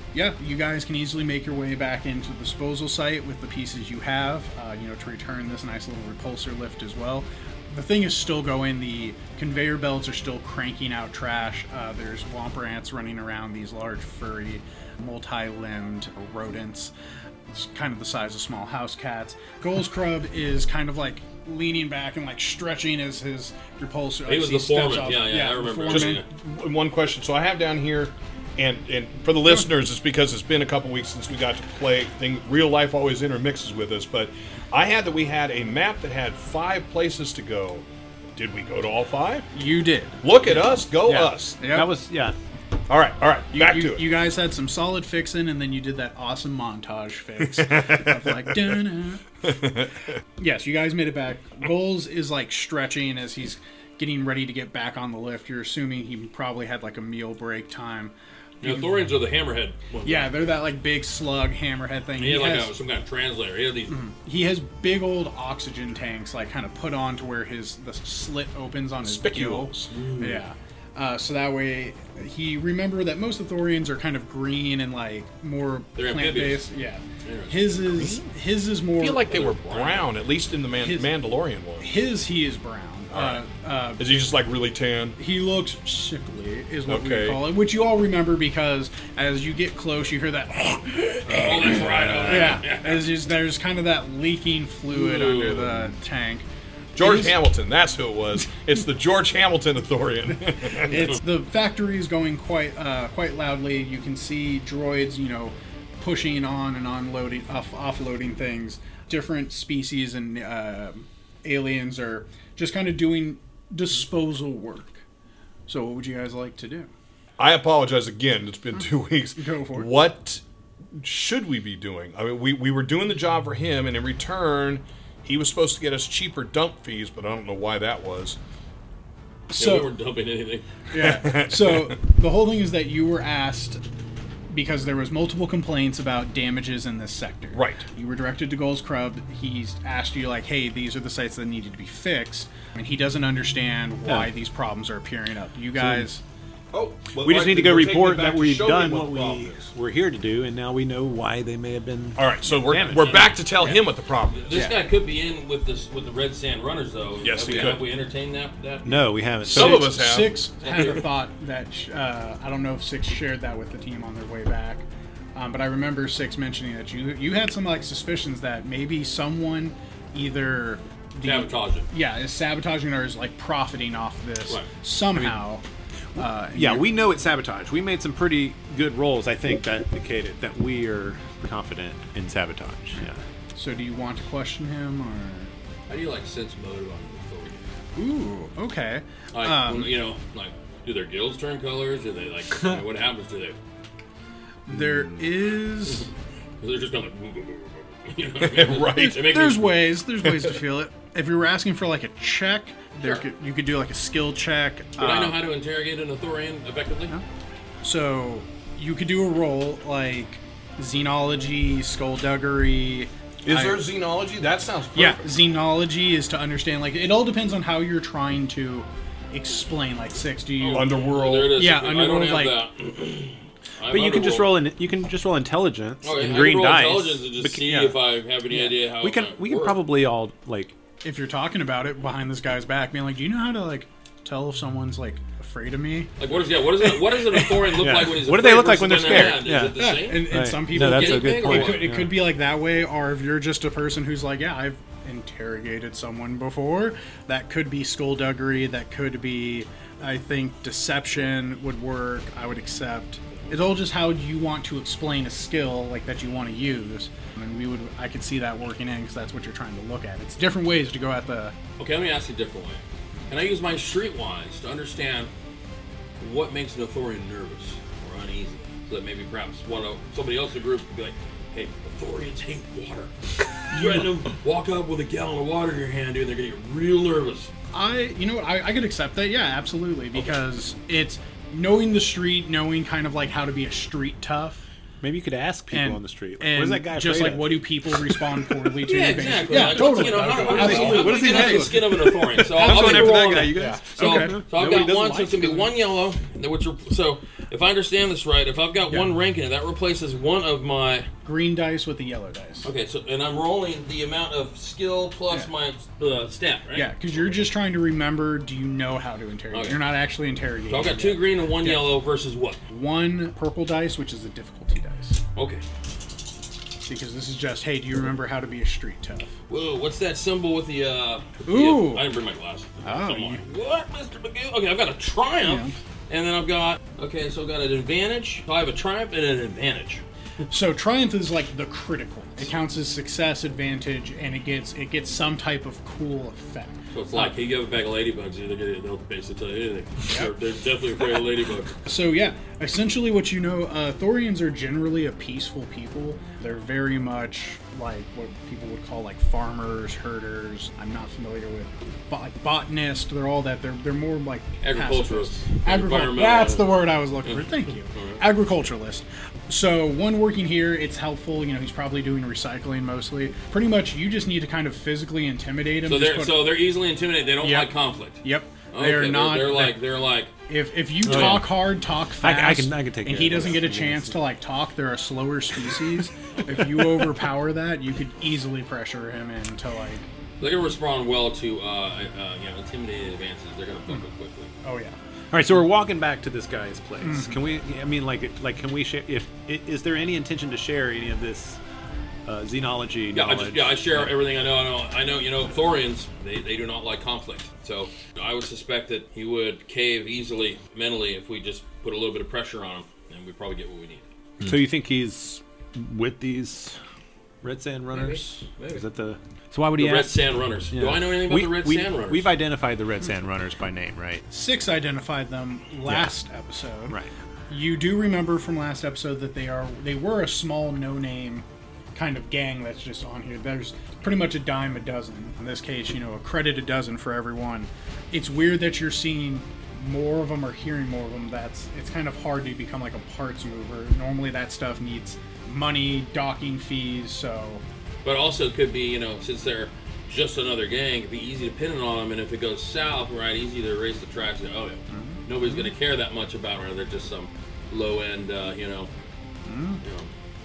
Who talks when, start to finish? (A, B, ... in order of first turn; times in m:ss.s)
0:00.1-0:16.9 A
0:17.5-0:26.2 A
0:24.3-0:26.3 B
0:25.9-0:39.5 C
0:39.5-0:40.3 A
0:40.2-0:41.6 C
0:40.9-0:41.9 A
0:41.7-0:42.4 D
0:42.9-0:44.1 C
0:43.5-0:49.2 A
0:47.5-0:48.8 C
0:50.4-0:59.0 A
0:58.6-1:00.3 B
1:00.0-1:02.7 A
1:02.2-1:04.0 B
1:03.9-1:19.4 A
1:09.0-1:09.9 C
1:09.9-1:10.4 B
1:16.0-1:16.7 B
1:17.2-1:17.7 B
1:17.9-1:18.3 C
1:19.0-1:21.9 C
1:19.3-1:20.1 B
1:20.8-1:21.1 A
1:21.8-1:24.1 A
1:23.1-1:23.4 C
1:24.0-1:25.2 C
1:25.2-1:36.4 A
1:26.9-1:27.5 C
1:31.3-1:33.1 B
1:32.0-1:32.5 C
1:34.9-1:35.9 B
1:37.0-1:41.1 C
1:37.0-1:37.4 A
1:40.8-1:55.0 A
1:55.7-1:56.9 A
1:57.4-2:00.4 C
1:59.4-1:59.9 A
2:01.0-2:08.4 C
2:09.5-2:09.9 A
2:09.6-2:10.7 B
2:10.9-2:13.8 A
2:11.0-2:11.9 C
2:14.5-2:26.2 A
2:17.5-2:17.8 C
2:24.1-2:24.3 D
2:25.8-2:26.1 D
2:26.7-2:29.7 C
2:27.2-2:33.3 D
2:32.2-2:34.7 C
2:33.0-2:33.8 B
2:34.3-2:39.1 B
2:34.5-2:34.8 A
2:37.2-2:37.9 C
2:38.8-2:40.0 D
2:39.4-2:55.6 A
2:39.4-2:40.5 C
2:40.6-2:41.0 B
2:51.2-2:51.9 B
2:56.2-2:57.0 A
2:56.5-3:03.2 D
3:03.6-3:05.5 A
3:05.9-3:07.6 B
3:08.0-3:09.9 A
3:09.3-3:13.6 B
3:14.7-3:16.1 A
3:16.6-3:19.8 B
3:18.4-3:19.5 C
3:18.8-3:25.4 A
3:25.0-3:27.1 B
3:27.8-3:33.9 A
3:33.4-3:35.3 C
3:34.9-3:41.0 A
3:40.6-3:44.5 B
3:40.7-3:41.5 C
3:41.5-3:42.6 A
3:43.9-3:48.0 D
3:46.0-3:49.8 B
3:48.5-3:50.7 D
3:51.0-3:56.1 A
3:56.2-4:01.9 B
3:57.5-4:02.2 D
3:59.8-4:21.5 A
4:21.8-4:25.3 B
4:26.2-4:33.1 B
4:33.7-4:37.5 B
4:33.7-4:34.1 A
4:37.7-4:44.7 A
4:45.0-4:48.1 D
4:45.7-4:52.1 A
4:48.8-5:01.1 B
4:49.5-4:55.7 D
4:50.4-4:50.9 C
4:53.6-4:54.4 A
5:01.2-5:02.7 A
5:02.6-5:06.9 B
5:06.7-5:12.0 A
5:09.5-5:09.8 B
5:10.7-5:12.6 B
5:12.7-5:15.2 A
5:15.4-5:15.6 B
5:16.8-5:19.3 A
5:19.5-5:30.0 B
5:21.5-5:22.1 A
5:22.8-5:23.4 A
5:25.4-5:25.7 A
5:30.5-5:37.3 A
5:36.9-5:41.8 B
5:40.1-5:40.3 A
5:41.8-6:06.5 A
5:54.6-5:58.2 B
6:05.8-6:10.3 B
6:07.4-6:09.8 A
6:10.5-6:20.0 A
6:11.1-6:11.5 D
6:12.2-6:14.2 D
6:20.4-6:24.5 B
6:24.6-6:25.0 A
6:25.3-6:31.6 D
6:27.0-6:27.4 A
6:32.3-6:34.1 D
6:33.1-6:44.0 B
6:44.4-6:46.8 D
6:47.4-6:54.2 D
6:47.9-6:48.8 B
6:49.8-6:52.3 B
6:54.3-6:57.0 A
6:55.9-6:56.1 D
6:57.5-7:17.6 A
7:18.0-7:28.9 B
7:24.9-7:25.7 A
7:29.5-7:29.8 A
7:29.8-7:30.1 B